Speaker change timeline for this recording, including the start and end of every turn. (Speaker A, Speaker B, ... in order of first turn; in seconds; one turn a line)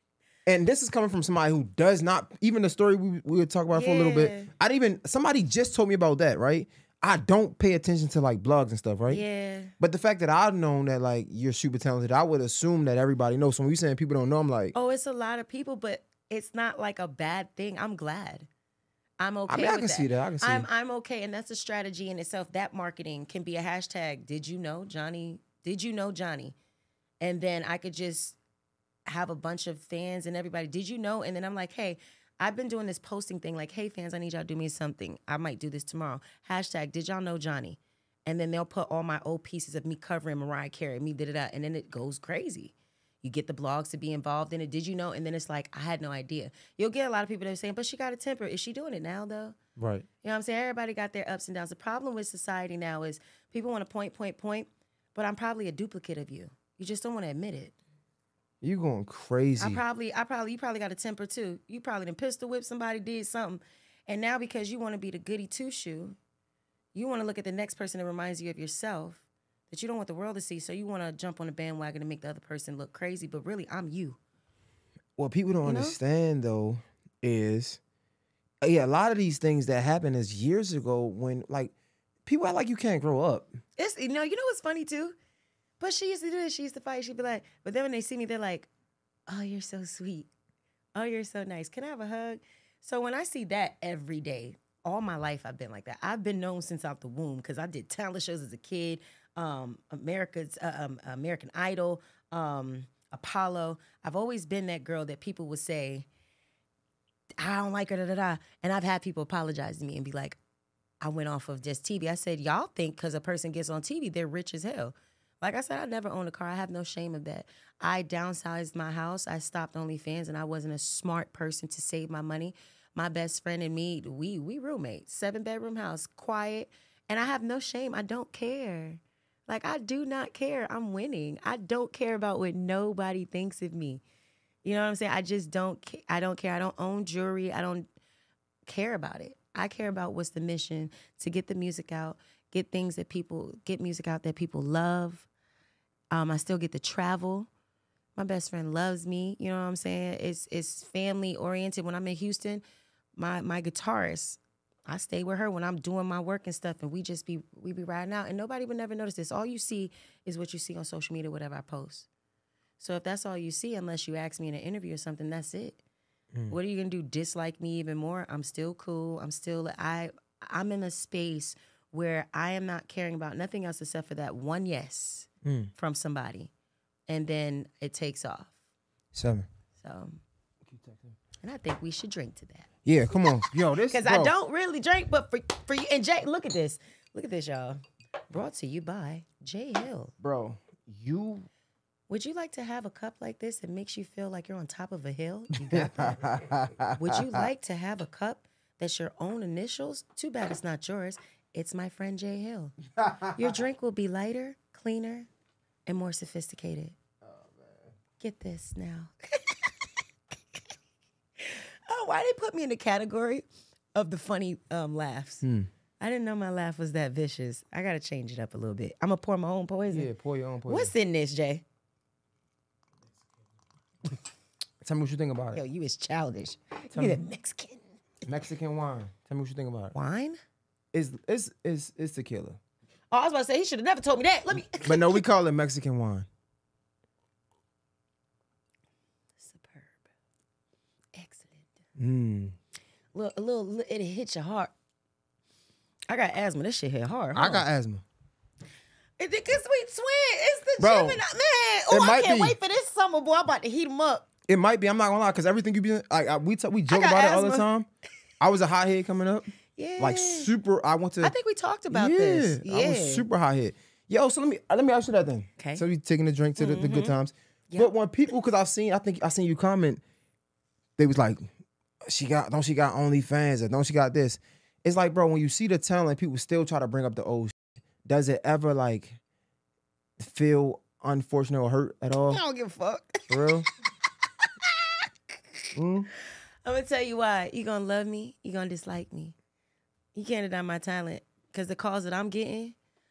Speaker A: 0.5-9.2
Speaker B: 3.7-4.5
Speaker B: 9.1-9.7
Speaker A: 9.8-14.7
Speaker B: 14.7-18.5
Speaker B: 19.2-26.5
Speaker A: 19.5-20.7
Speaker B: 27.2-28.4
Speaker B: 29.1-49.6
Speaker A: 49.8-50.0
Speaker B: 50.2-57.8
Speaker A: 58.6-59.8
Speaker B: 59.6-66.2
Speaker B: 66.9-74.2
Speaker A: 75.2-77.8
Speaker B: 75.6-76.0
Speaker A: 78.6-81.7
Speaker A: 82.2-83.5
Speaker B: 83.8-85.1
Speaker B: 85.8-88.7
Speaker B: 89.3-90.3
Speaker B: 90.9-106.0
Speaker B: 107.4-110.4
Speaker B: 111.0-134.0
Speaker B: 134.6-137.8
Speaker B: 138.7-145.3
Speaker B: 146.1-147.5
Speaker B: 148.2-152.6
Speaker B: 153.2-162.1
Speaker B: 162.8-165.8
Speaker B: 166.5-176.5
Speaker A: 175.4-175.7
Speaker B: 177.1-178.5
Speaker A: 179.1-179.5
Speaker B: 179.8-180.2
Speaker A: 180.7-181.2
Speaker B: 181.4-182.7
Speaker A: 182.8-184.3
Speaker B: 183.9-190.1
Speaker A: 190.2-191.5
Speaker B: 192.1-196.2
Speaker A: 195.7-197.4
Speaker B: 197.0-202.8
Speaker A: 203.0-203.6
Speaker B: 203.3-205.3
Speaker B: 205.8-206.9
Speaker A: 207.2-207.9
Speaker B: 208.2-209.7
Speaker B: 211.4-215.4
Speaker A: 215.4-215.7
Speaker B: 216.0-220.1
Speaker A: 219.9-220.9
Speaker B: 220.7-221.6
Speaker A: 224.8-225.6
Speaker B: 225.5-227.8
Speaker A: 226.9-227.2
Speaker A: 228.2-229.9
Speaker B: 229.9-230.4
Speaker A: 230.9-232.6
Speaker B: 233.1-235.2
Speaker A: 234.8-236.3
Speaker B: 239.4-240.0
Speaker B: 241.1-241.7
Speaker A: 241.9-242.5
Speaker B: 243.1-244.7
Speaker B: 246.1-247.7
Speaker A: 247.3-248.0
Speaker B: 249.2-254.3
Speaker A: 250.8-251.2
Speaker A: 251.9-252.6
Speaker A: 254.5-257.9
Speaker B: 256.9-257.6
Speaker A: 258.4-259.4
Speaker B: 259.8-260.5
Speaker A: 260.0-261.3
Speaker B: 261.2-263.2
Speaker A: 261.9-270.0
Speaker B: 265.6-265.8
Speaker B: 266.6-267.1
Speaker A: 271.0-271.5
Speaker A: 272.1-277.5
Speaker A: 278.0-279.2
Speaker A: 280.2-282.4
Speaker B: 282.3-283.5
Speaker A: 283.3-283.6
Speaker B: 284.4-285.1
Speaker A: 285.7-286.1
Speaker B: 286.6-289.3
Speaker B: 290.1-292.7